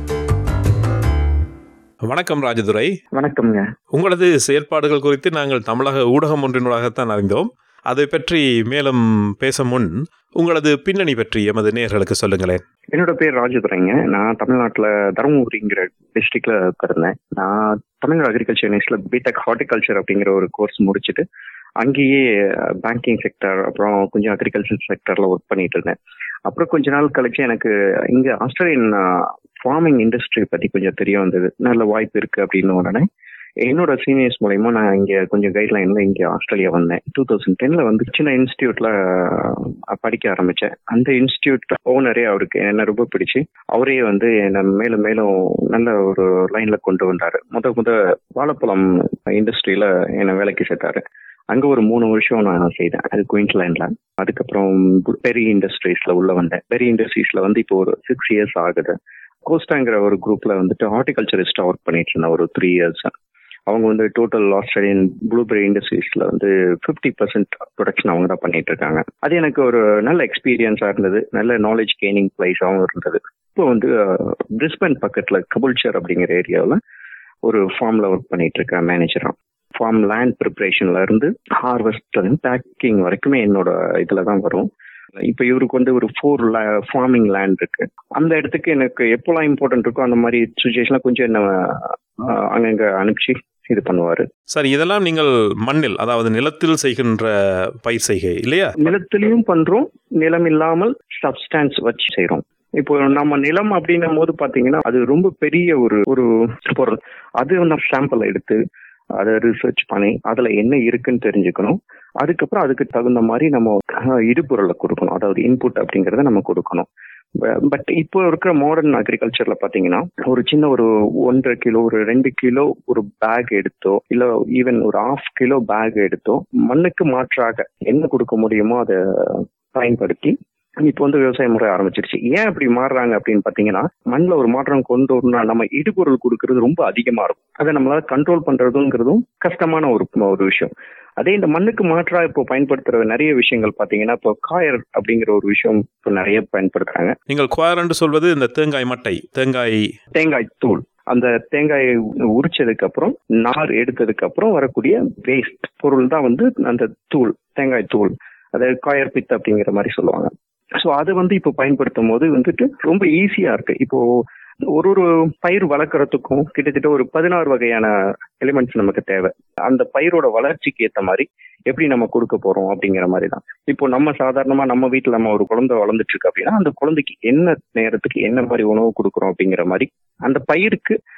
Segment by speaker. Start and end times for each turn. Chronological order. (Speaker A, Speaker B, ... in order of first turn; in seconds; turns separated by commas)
Speaker A: 2.1-2.9, Speaker B: 3.1-3.6, Speaker A: 3.9-12.6, Speaker B: 12.9-21.2, Speaker B: 21.8-22.2, Speaker B: 22.8-25.9, Speaker B: 26.5-29.0, Speaker B: 29.6-33.0, Speaker B: 33.6-58.9, Speaker B: 59.5-63.1, Speaker B: 63.7-76.8, Speaker B: 77.4-84.7, Speaker B: 85.3-94.2, Speaker A: 94.5-97.3, Speaker A: 97.8-98.8, Speaker B: 98.8-108.6, Speaker B: 109.2-116.9, Speaker B: 117.7-147.1, Speaker A: 147.3-149.8, Speaker B: 150.2-160.3, Speaker B: 160.8-164.0, Speaker B: 164.7-180.9